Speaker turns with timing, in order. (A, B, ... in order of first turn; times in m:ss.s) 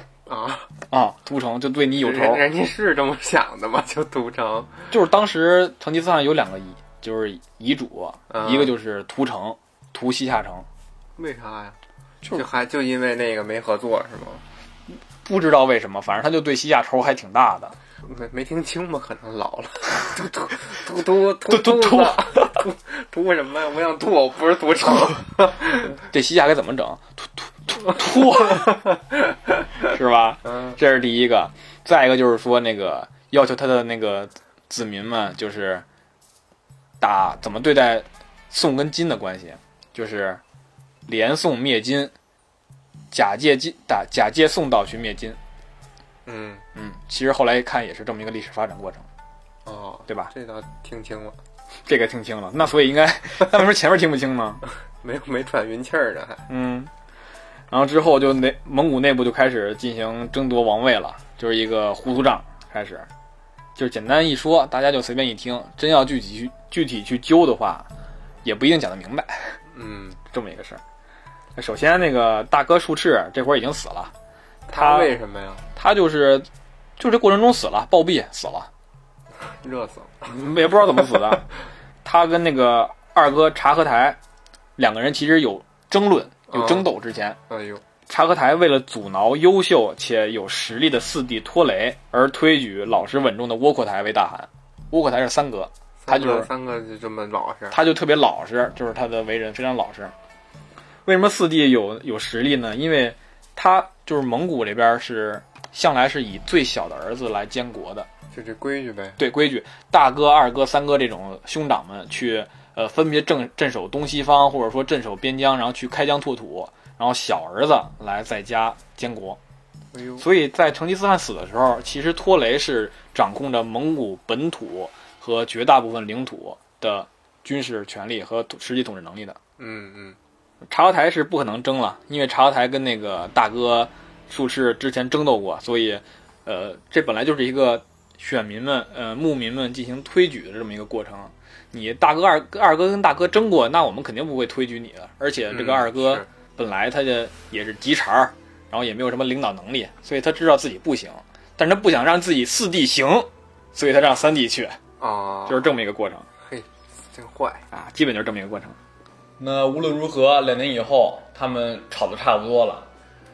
0:00.2-0:00.7 A
0:00.9-0:02.4 B
0:02.0-0:04.9 A
0:04.9-0:10.6 B
0:08.3-0:08.7 A
0:11.2-0:11.8 A
0:12.3-0:14.4 A
0:15.2-0:17.8 B
0:18.0-0:25.9 A
0:21.4-0:22.6 B
0:25.9-0:28.8 B
0:29.8-0:35.8 B
0:30.4-0:30.8 A
0:37.0-0:40.4 B
0:41.1-0:42.1 B
0:43.1-0:45.4 B
0:46.2-0:46.6 A
0:46.7-0:49.1 B
0:49.6-0:51.4 A
0:51.8-0:54.6 B
0:55.0-0:56.5 A
0:56.5-0:56.9 B
0:57.7-1:03.1 B
1:03.8-1:07.9 B
1:08.4-1:09.6 B
1:09.7-1:10.2 A
1:10.3-1:10.8 B
1:11.6-1:14.1 B
1:14.7-1:15.6 A
1:14.7-1:15.1 B
1:15.8-1:16.5 B
1:17.0-1:18.7 B
1:19.4-1:20.3 A
1:20.3-1:21.5 B
1:22.0-1:24.2 B
1:24.8-1:27.4 B
1:26.5-1:26.9 A
1:27.5-1:27.8 A
1:28.1-1:36.5 B
1:36.0-1:37.8 A
1:37.7-1:40.1 B
1:41.0-1:48.1 B
1:48.3-1:49.2 A
1:49.2-1:59.4 B
1:59.9-2:00.2 A
2:00.2-2:09.4 B
2:09.6-2:10.2 A
2:10.7-2:34.8 B
2:25.5-2:26.3 A
2:35.0-2:35.7 A
2:35.5-2:36.3 B
2:36.4-2:37.6 A
2:37.7-2:38.8 B
2:39.4-2:42.9 B